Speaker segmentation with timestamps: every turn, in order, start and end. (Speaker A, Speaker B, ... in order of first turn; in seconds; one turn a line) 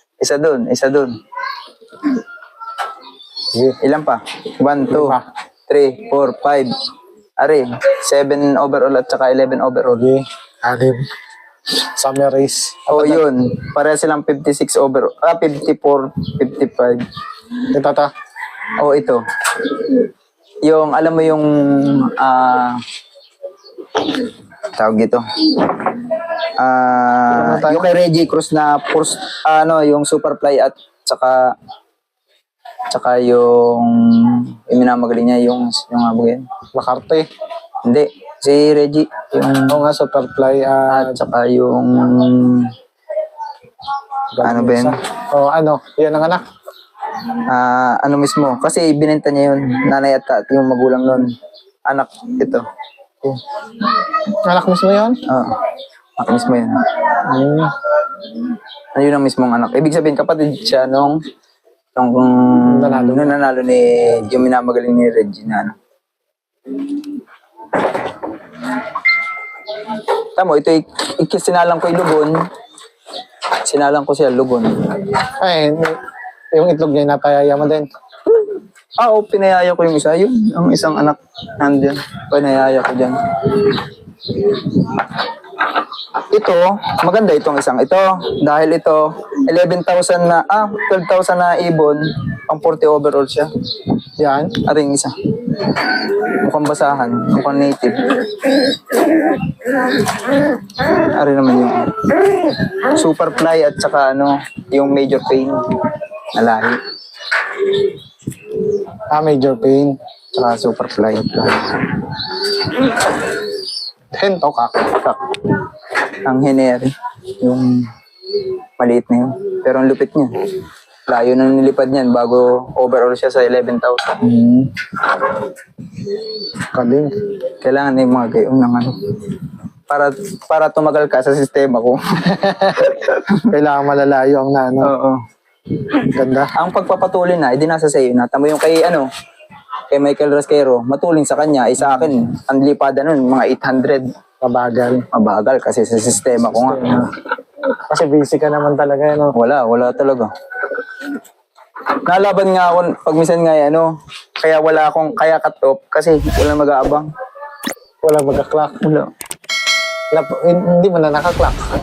Speaker A: 0.2-1.1
Speaker A: 3.8-5.2
Speaker B: 4.9-5.2
Speaker A: 5.7-6.7
Speaker A: 7.4-10.1
Speaker B: 9.9-11.0
Speaker B: 11.7-13.3
Speaker A: 12.9-17.0
Speaker B: 17.7-18.1
Speaker A: 18.8-20.0
Speaker A: 20.6-22.8
Speaker A: 24.0-24.2
Speaker A: 24.7-31.4
Speaker B: 27.3-27.9
Speaker A: 32.9-36.5
Speaker B: 36.7-37.3
Speaker A: 37.8-39.8
Speaker B: 39.7-41.2
Speaker A: 40.9-42.7
Speaker B: 44.3-46.4
Speaker A: 44.4-45.0
Speaker A: 47.2-51.3
Speaker A: 51.9-52.6
Speaker B: 54.4-55.2
Speaker A: 55.3-55.6
Speaker A: 56.2-56.9
Speaker B: 57.2-57.7
Speaker A: 58.3-61.2
Speaker A: 62.0-65.7
Speaker B: 62.7-63.4
Speaker A: 69.8-72.4
Speaker A: 73.6-75.2
Speaker B: 75.4-76.0
Speaker B: 76.5-77.9
Speaker A: 78.3-85.1
Speaker A: 86.1-93.5
Speaker B: 94.2-94.6
Speaker A: 94.6-106.8
Speaker B: 109.1-110.0
Speaker A: 110.3-112.2
Speaker B: 114.2-115.1
Speaker A: 116.1-117.9
Speaker A: 118.4-120.3
Speaker A: 121.1-124.2
Speaker B: 124.2-124.7
Speaker B: 126.7-127.1
Speaker A: 127.6-132.0
Speaker B: 132.3-134.9
Speaker A: 132.8-133.4
Speaker A: 134.8-135.2
Speaker B: 136.0-136.5
Speaker A: 136.6-139.1
Speaker A: 139.9-144.1
Speaker B: 144.4-145.1
Speaker A: 145.1-146.9
Speaker B: 146.4-147.1
Speaker B: 147.9-149.3
Speaker A: 149.3-150.3
Speaker A: 152.0-153.9
Speaker A: 154.4-157.1
Speaker B: 158.0-158.8
Speaker A: 158.8-159.1
Speaker B: 160.1-161.6